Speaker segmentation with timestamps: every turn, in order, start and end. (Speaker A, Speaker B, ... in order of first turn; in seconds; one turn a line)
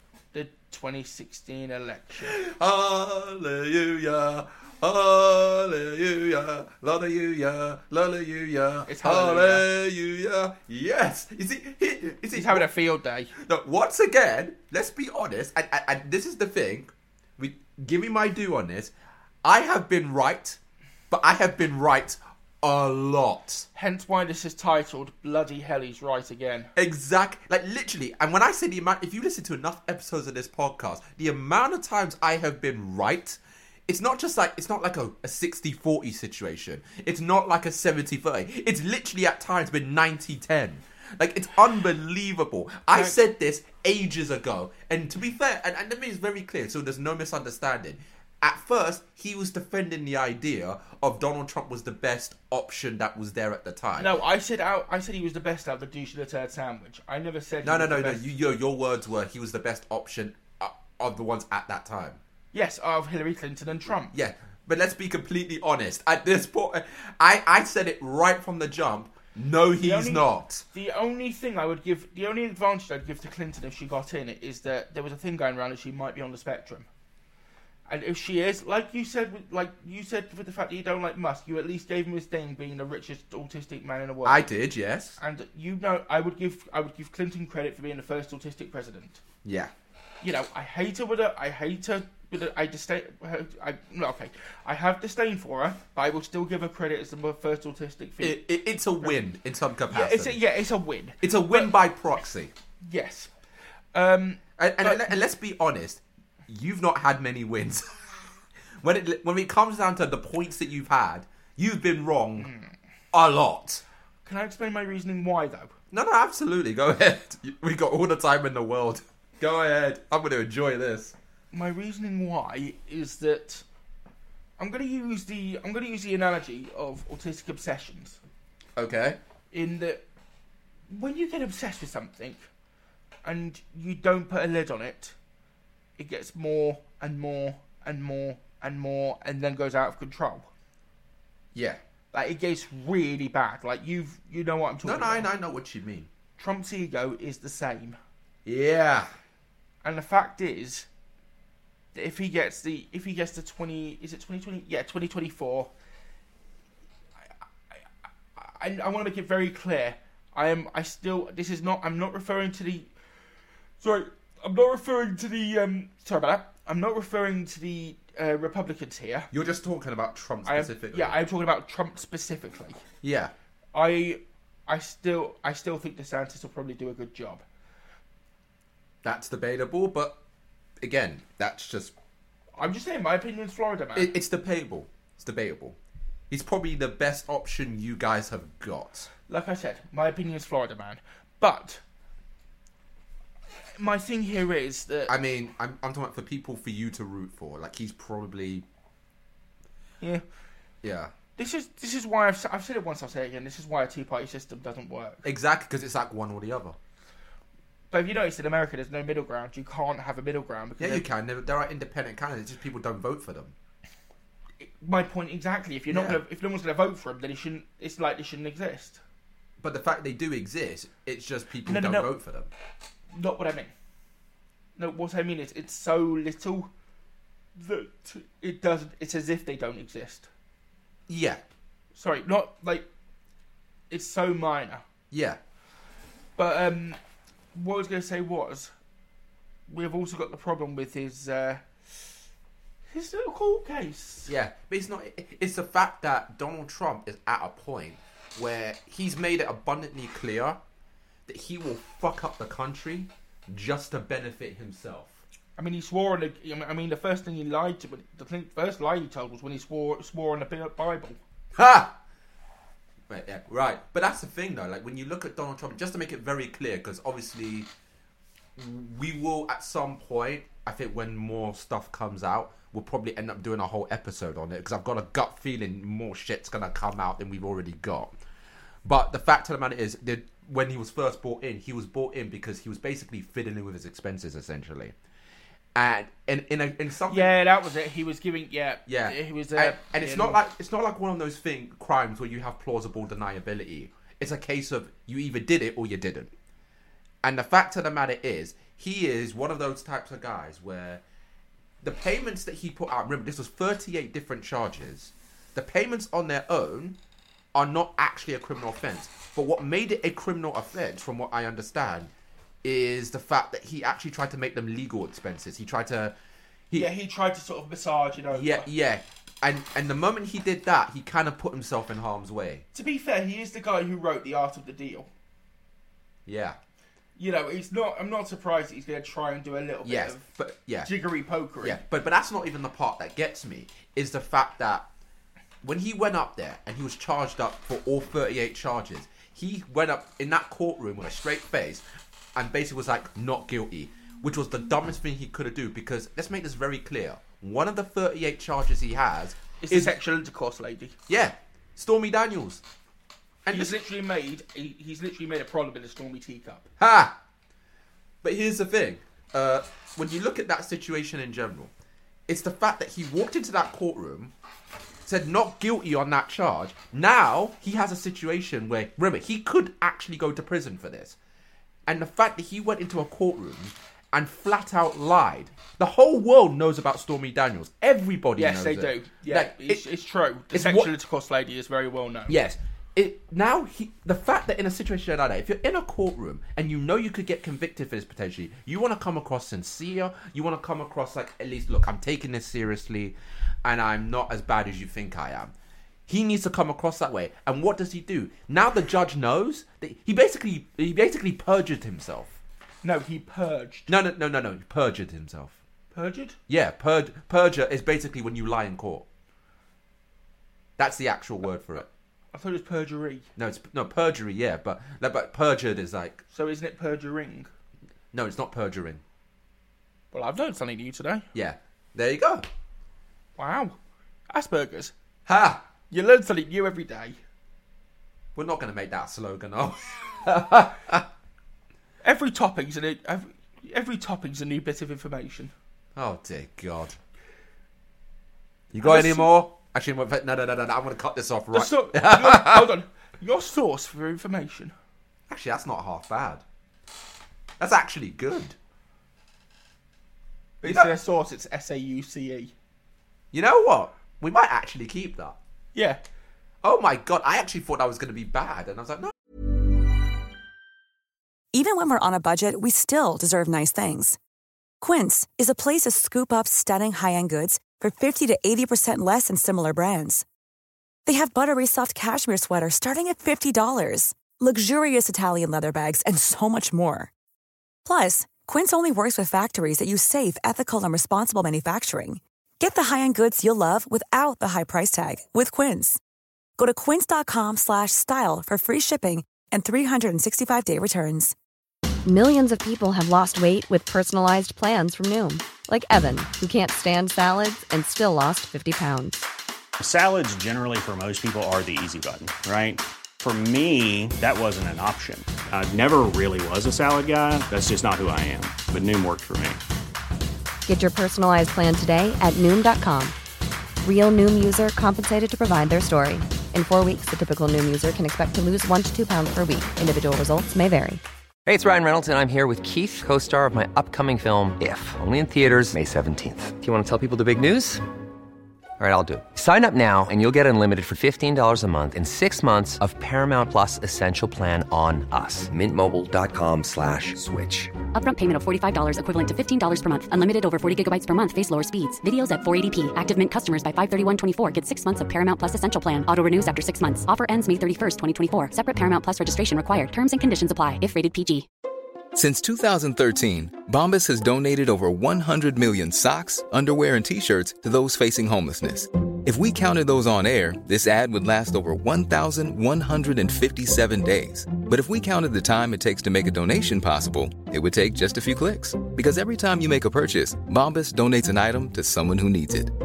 Speaker A: 0.3-2.4
Speaker B: 2.2-12.7
Speaker A: 8.9-9.7
Speaker A: 12.3-13.3
Speaker B: 13.4-18.9
Speaker B: 19.4-20.6
Speaker B: 21.1-23.7
Speaker A: 23.7-26.7
Speaker B: 26.8-54.1
Speaker A: 54.0-58.3
Speaker B: 57.6-62.2
Speaker A: 62.5-64.1
Speaker B: 64.1-70.6
Speaker A: 69.8-76.9
Speaker A: 77.9-84.4
Speaker B: 84.2-85.2
Speaker A: 85.2-89.2
Speaker B: 89.4-89.7
Speaker A: 90.2-98.4
Speaker B: 98.2-100.4
Speaker A: 99.9-101.8
Speaker B: 101.2-102.5
Speaker A: 102.8-103.3
Speaker A: 103.9-105.1
Speaker B: 104.6-108.3
Speaker B: 108.8-112.5
Speaker A: 112.4-112.7
Speaker B: 113.1-113.8
Speaker A: 114.2-115.7
Speaker B: 115.9-121.1
Speaker A: 121.5-123.6
Speaker A: 124.6-128.2
Speaker B: 128.8-129.2
Speaker A: 129.5-130.0
Speaker A: 130.9-132.4
Speaker A: 133.2-135.1
Speaker A: 136.0-140.5
Speaker B: 141.5-141.8
Speaker A: 142.1-145.3
Speaker B: 144.8-146.1
Speaker A: 146.4-148.0
Speaker B: 148.4-149.1
Speaker A: 149.8-150.9
Speaker A: 151.9-155.7
Speaker A: 158.3-162.9
Speaker A: 163.8-169.3
Speaker B: 169.3-171.2
Speaker A: 170.4-172.8
Speaker B: 173.0-173.3
Speaker A: 173.7-177.4
Speaker B: 179.0-180.2
Speaker B: 180.8-181.9
Speaker A: 182.6-184.1
Speaker B: 183.9-185.8
Speaker B: 186.3-189.1
Speaker A: 189.3-191.8
Speaker A: 193.8-195.1
Speaker B: 195.1-198.6
Speaker B: 200.8-201.1
Speaker A: 201.4-205.2
Speaker B: 205.2-206.8
Speaker A: 207.9-211.1
Speaker B: 210.8-213.5
Speaker A: 214.6-219.0
Speaker B: 215.9-216.2
Speaker B: 219.6-222.5
Speaker A: 221.7-222.1
Speaker A: 223.1-223.7
Speaker A: 224.8-226.7
Speaker A: 227.6-230.3
Speaker B: 231.1-231.4
Speaker A: 231.9-232.9
Speaker A: 233.9-234.8
Speaker B: 235.1-235.4
Speaker A: 236.3-237.0
Speaker A: 237.5-238.7
Speaker A: 239.7-242.2
Speaker A: 242.9-244.3
Speaker B: 244.2-250.6
Speaker B: 251.3-255.2
Speaker A: 255.6-261.2
Speaker B: 261.5-261.9
Speaker B: 263.1-267.7
Speaker B: 268.6-278.1
Speaker B: 278.8-284.9
Speaker B: 285.7-287.4
Speaker A: 287.1-290.4
Speaker B: 288.9-296.3
Speaker B: 297.2-301.0
Speaker B: 301.8-307.0
Speaker B: 307.5-312.1
Speaker B: 312.6-316.1
Speaker A: 316.7-318.7
Speaker B: 318.3-322.6
Speaker A: 322.7-325.1
Speaker B: 326.2-326.6
Speaker A: 327.1-330.2
Speaker B: 329.8-330.9
Speaker A: 330.8-331.8
Speaker B: 331.6-334.9
Speaker B: 335.6-341.8
Speaker B: 342.3-349.9
Speaker A: 349.6-350.9
Speaker B: 351.1-352.6
Speaker B: 353.4-353.8
Speaker A: 353.5-356.7
Speaker B: 356.8-357.1
Speaker B: 358.2-361.7
Speaker B: 362.3-364.3
Speaker B: 365.1-371.1
Speaker B: 371.9-379.9
Speaker A: 378.4-382.3
Speaker B: 380.5-380.9
Speaker B: 382.3-395.5
Speaker B: 396.1-402.4
Speaker A: 402.8-403.9
Speaker B: 403.9-405.6
Speaker A: 405.9-406.4
Speaker B: 406.5-409.1
Speaker B: 410.8-411.9
Speaker A: 412.3-413.3
Speaker B: 413.4-416.2
Speaker A: 416.3-417.5
Speaker B: 418.1-419.0
Speaker A: 420.1-421.2
Speaker B: 421.3-422.4
Speaker A: 423.4-423.8
Speaker A: 424.3-424.9
Speaker B: 425.2-425.6
Speaker A: 425.9-427.2
Speaker B: 428.3-431.1
Speaker A: 432.0-435.5
Speaker B: 435.9-437.0
Speaker B: 438.7-442.7
Speaker A: 438.8-439.3
Speaker A: 441.5-444.7
Speaker B: 445.3-446.4
Speaker B: 447.6-448.6
Speaker A: 450.6-452.5
Speaker B: 450.6-450.9
Speaker B: 453.3-455.4
Speaker A: 455.7-456.0
Speaker B: 456.6-459.1
Speaker C: 461.5-464.2
Speaker C: 464.8-470.2
Speaker C: 471.1-477.1
Speaker C: 477.8-486.0
Speaker C: 486.6-491.3
Speaker D: 492.0-499.3
Speaker E: 499.8-509.6
Speaker D: 510.6-513.1
Speaker D: 513.8-521.0
Speaker F: 521.5-527.8
Speaker F: 528.8-537.8
Speaker G: 537.9-551.5
Speaker H: 552.1-572.7